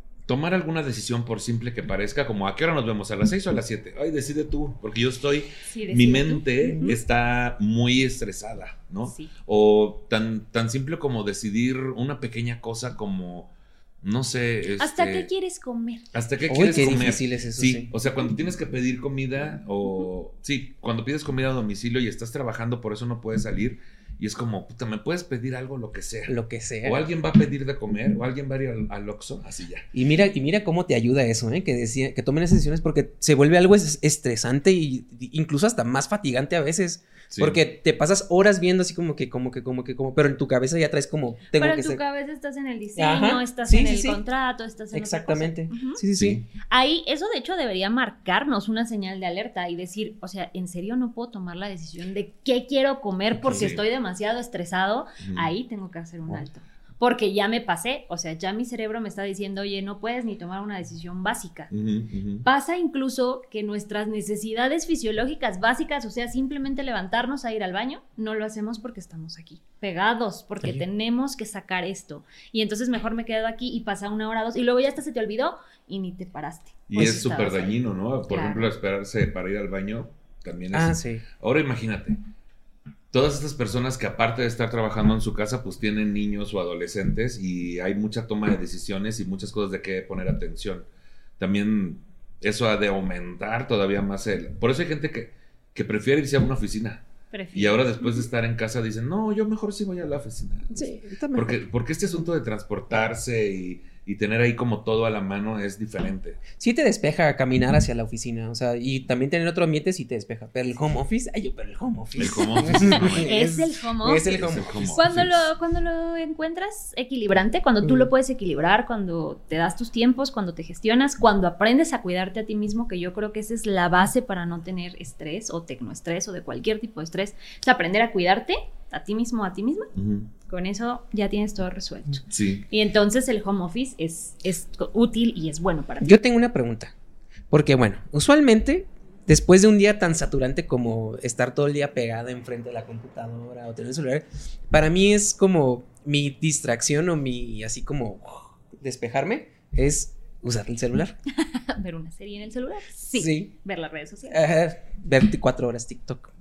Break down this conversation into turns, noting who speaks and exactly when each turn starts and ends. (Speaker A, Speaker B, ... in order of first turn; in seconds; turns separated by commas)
Speaker A: 0.2-15.3, Speaker B: 5.6-7.0, Speaker C: 6.6-6.9, Speaker B: 9.0-9.3, Speaker B: 14.8-16.1, Speaker A: 16.1-29.9, Speaker C: 16.5-17.9, Speaker C: 26.3-27.0, Speaker C: 29.9-42.0, Speaker A: 37.3-37.6, Speaker B: 41.5-46.0, Speaker C: 43.0-44.2, Speaker C: 44.9-46.4, Speaker A: 46.1-46.4, Speaker B: 46.7-61.7, Speaker C: 53.3-53.7, Speaker A: 53.5-53.8, Speaker A: 55.2-55.5, Speaker A: 61.7-62.5, Speaker B: 62.4-77.8, Speaker A: 76.9-82.2, Speaker B: 78.3-78.7, Speaker C: 80.7-81.2, Speaker A: 83.1-90.9, Speaker A: 91.4-106.4, Speaker B: 97.3-98.2, Speaker C: 100.7-101.6, Speaker C: 106.6-115.0, Speaker A: 112.2-113.5, Speaker B: 112.9-114.4, Speaker A: 114.2-115.5, Speaker B: 114.9-129.9, Speaker C: 117.8-118.1, Speaker A: 129.9-130.3, Speaker B: 130.4-136.2, Speaker A: 132.3-132.7, Speaker C: 136.0-136.9, Speaker C: 137.5-151.2, Speaker B: 151.4-154.4, Speaker C: 153.1-153.5, Speaker C: 154.3-156.3